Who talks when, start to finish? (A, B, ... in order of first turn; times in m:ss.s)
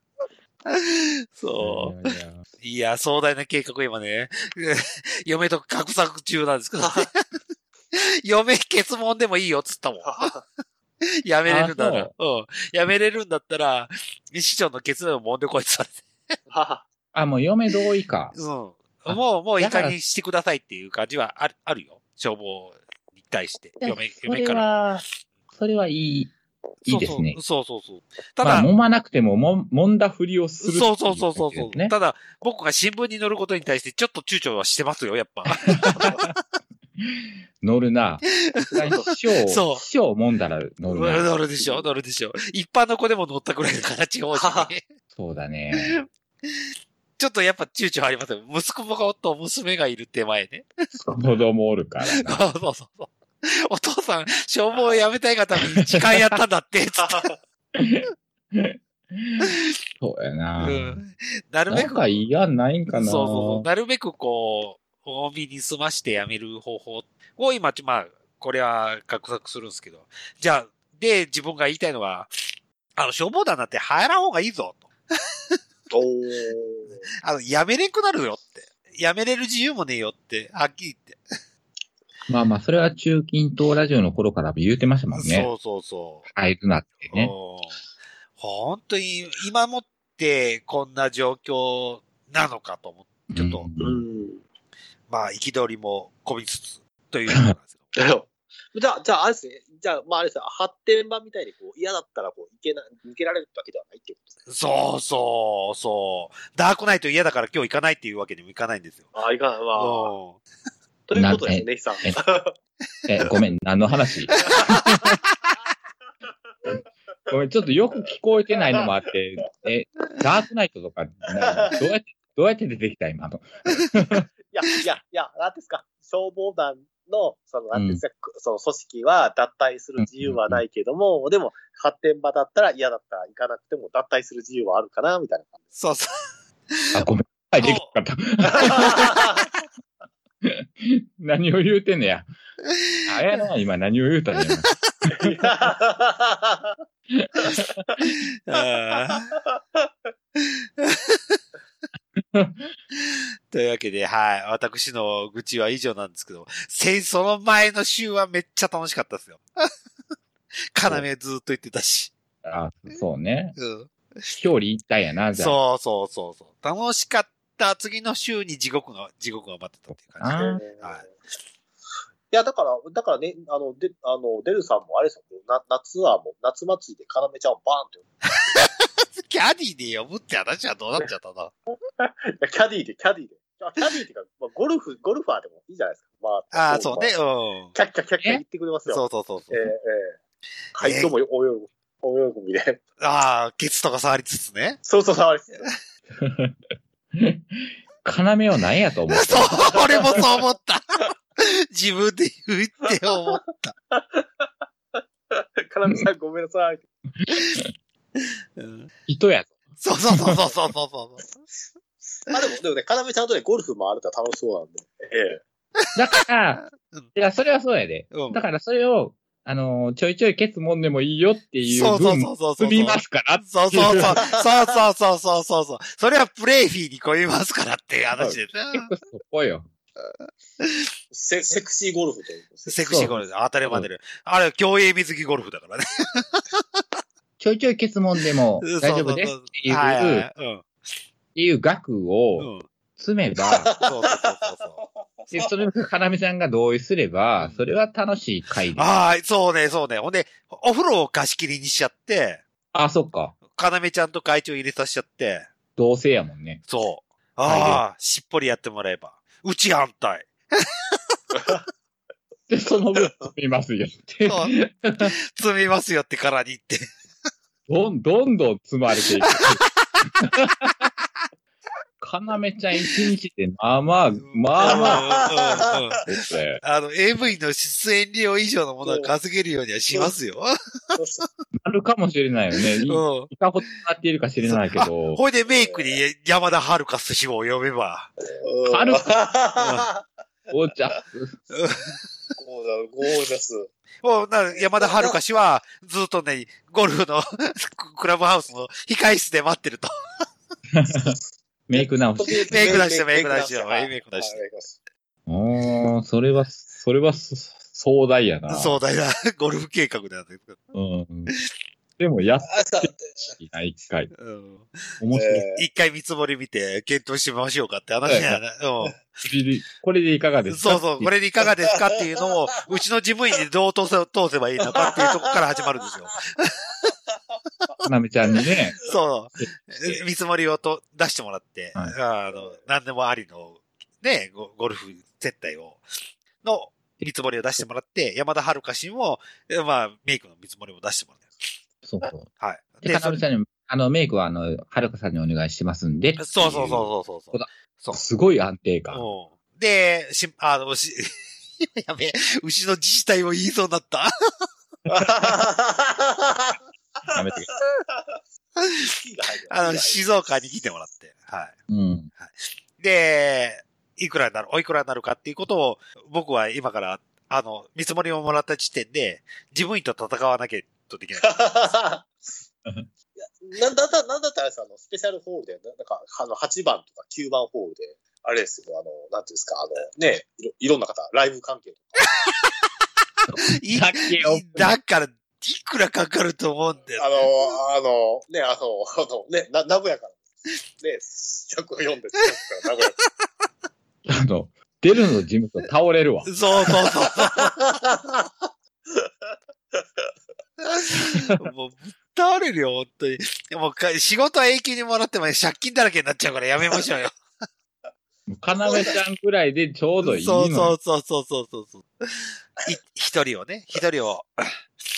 0:00.6-0:07.4 A
0:01.6-0:02.4 B
0:07.9-0:10.3 A
0:10.0-0:10.4 C
0:11.2-0:16.1 A
0:11.5-0:12.1 B
0:16.5-0:16.8 C
0:17.1-0:18.4 B
0:18.3-0:24.6 A
0:19.1-0:20.0 B
0:23.8-0:26.3 B
0:26.8-0:27.4 B
0:26.9-0:28.7 A
0:28.4-0:31.9 B
0:30.6-0:36.3 A
0:35.8-0:36.3 B
0:37.0-0:41.3 B
0:38.4-0:39.8 A
0:40.9-0:44.9 A
0:44.3-0:44.7 C
0:45.1-0:46.0 B
0:45.7-0:46.0 A
0:47.2-0:50.7 A
0:50.9-0:52.4 B
0:52.0-0:57.3 A
0:55.8-0:56.3 B
0:57.0-0:57.4 C
0:57.7-0:59.5 B
1:00.0-1:01.0 B
1:00.6-1:02.2 A
1:01.7-1:03.7 B
1:02.9-1:12.3 A
1:13.0-1:14.9 A
1:15.9-1:17.0 C
1:17.2-1:21.2 A
1:22.3-1:25.5 B
1:25.1-1:26.2 A
1:26.3-1:27.3 B
1:27.0-1:27.8 A
1:28.4-1:33.7 A
1:33.3-1:34.0 B
1:33.8-1:34.4 C
1:35.1-1:37.9 A
1:37.9-1:44.4 C
1:44.5-1:49.1 A
1:49.1-1:50.1 C
1:49.8-1:50.4 A
1:51.1-1:52.5 C
1:51.1-1:52.2 B
1:53.1-1:55.2 B
1:54.4-1:54.7 C
1:57.3-2:04.2 B
1:58.5-1:58.9 C
2:01.3-2:01.8 C
2:04.5-2:15.6 C
2:07.7-2:08.0 B
2:10.0-2:10.6 B
2:15.8-2:16.1 A
2:16.9-2:19.2 B
2:17.6-2:17.9 A
2:18.6-2:19.5 C
2:20.4-2:22.3 B
2:22.7-2:23.1 A
2:23.1-2:25.4 B
2:25.1-2:26.8 C
2:27.1-2:28.1 B
2:27.4-2:27.7 C
2:28.0-2:29.3 A
2:30.4-2:31.4 A
2:32.2-2:32.7 B
2:32.9-2:39.7 A
2:40.7-2:42.1 A
2:42.4-2:43.6 B
2:43.6-2:44.4 A
2:44.4-2:45.6 B
2:45.3-2:51.0 A
2:50.2-2:50.6 B
2:50.3-2:51.1 C
2:52.3-2:58.0 C
2:58.4-3:01.5 A
3:02.0-3:07.1 C
3:06.5-3:07.7 A
3:07.7-3:10.2 C
3:08.9-3:09.7 A
3:10.7-3:12.8 C
3:10.8-3:11.1 A
3:13.0-3:14.8 A
3:14.8-3:15.7 C
3:16.2-3:16.6 B
3:17.1-3:20.2 B
3:19.1-3:23.7 A
3:23.9-3:24.5 C
3:25.3-3:26.8 C
3:27.2-3:27.7 B
3:28.6-3:28.9 A
3:29.1-3:29.6 B
3:29.8-3:31.2 A
3:30.1-3:30.4 B
3:32.3-3:35.4 C
3:35.9-3:44.2 B
3:36.8-3:37.1 A
3:38.1-3:38.4 A
3:41.6-3:48.9 A
3:44.0-3:44.4 C
3:48.2-3:49.7 B
3:50.6-3:50.8 A
3:51.1-3:52.8 C
3:52.7-3:56.6 A
3:52.8-3:53.9 B
3:57.4-4:00.3 B
3:58.6-4:00.7 A
4:01.3-4:03.7 B
4:02.4-4:02.7 A
4:03.5-4:04.5 C
4:03.8-4:04.8 A
4:05.2-4:05.5 C
4:05.3-4:08.9 B
4:07.4-4:07.6 A
4:08.8-4:12.4 A
4:12.7-4:13.4 B
4:13.5-4:15.5 A
4:15.8-4:16.6 B
4:16.7-4:20.6 A
4:17.4-4:17.8 B
4:22.5-4:25.1 B
4:24.2-4:26.9 A
4:27.7-4:29.6 B
4:29.3-4:29.6 A
4:30.2-4:30.9 B
4:32.0-4:35.1 B
4:34.2-4:41.0 A
4:34.6-4:35.7 C
4:36.0-4:36.6 B
4:38.8-4:39.1 C
4:40.9-4:41.2 C
4:41.6-4:45.2 B
4:42.9-4:43.3 A
4:44.4-4:48.1 A
4:45.5-4:46.0 C
4:48.4-4:50.0 C
4:48.7-4:49.1 B
4:49.6-4:49.9 A
4:50.5-4:51.4 B
4:51.5-4:52.0 A
4:52.4-4:53.7 C
4:54.0-4:59.9 A
4:54.5-4:55.2 C
5:00.7-5:01.2 B
5:01.7-5:02.8 B
5:01.7-5:04.8 C
5:02.5-5:04.4 A
5:05.3-5:08.8 B
5:08.5-5:10.6 A
5:10.7-5:11.3 B
5:12.0-5:14.1 B
5:12.5-5:13.3 C
5:14.2-5:14.8 A
5:15.0-5:15.4 B
5:15.1-5:15.6 C
5:15.5-5:19.0 A
5:18.0-5:18.4 B
5:19.2-5:21.1 B
5:20.5-5:26.9 A
5:24.7-5:25.3 C
5:27.8-5:28.8 B
5:28.8-5:35.8 A
5:29.4-5:30.0 B
5:36.4-5:41.4 A
5:41.8-5:42.3 B
5:42.4-5:43.2 A
5:42.8-5:49.0 B
5:46.2-5:48.0 A
5:48.9-5:54.1 A
5:54.9-5:58.2 C
5:57.1-5:57.5 B
5:58.6-5:58.9 A
5:58.8-6:00.0 C
5:59.5-6:01.6 A
6:01.7-6:02.1 B
6:02.2-6:11.4 A
6:11.2-6:12.1 C
6:13.2-6:22.0 C
6:23.3-6:24.8 B
6:23.5-6:27.5 A
6:27.0-6:30.2 C
6:30.8-6:33.0 C
6:34.0-6:36.3 B
6:36.2-6:37.5 A
6:37.3-6:38.3 C
6:39.7-6:40.0 C
6:40.6-6:47.2 A
6:40.9-6:41.3 B
6:48.3-6:50.8 B
6:48.6-6:48.9 C
6:50.0-6:54.5 A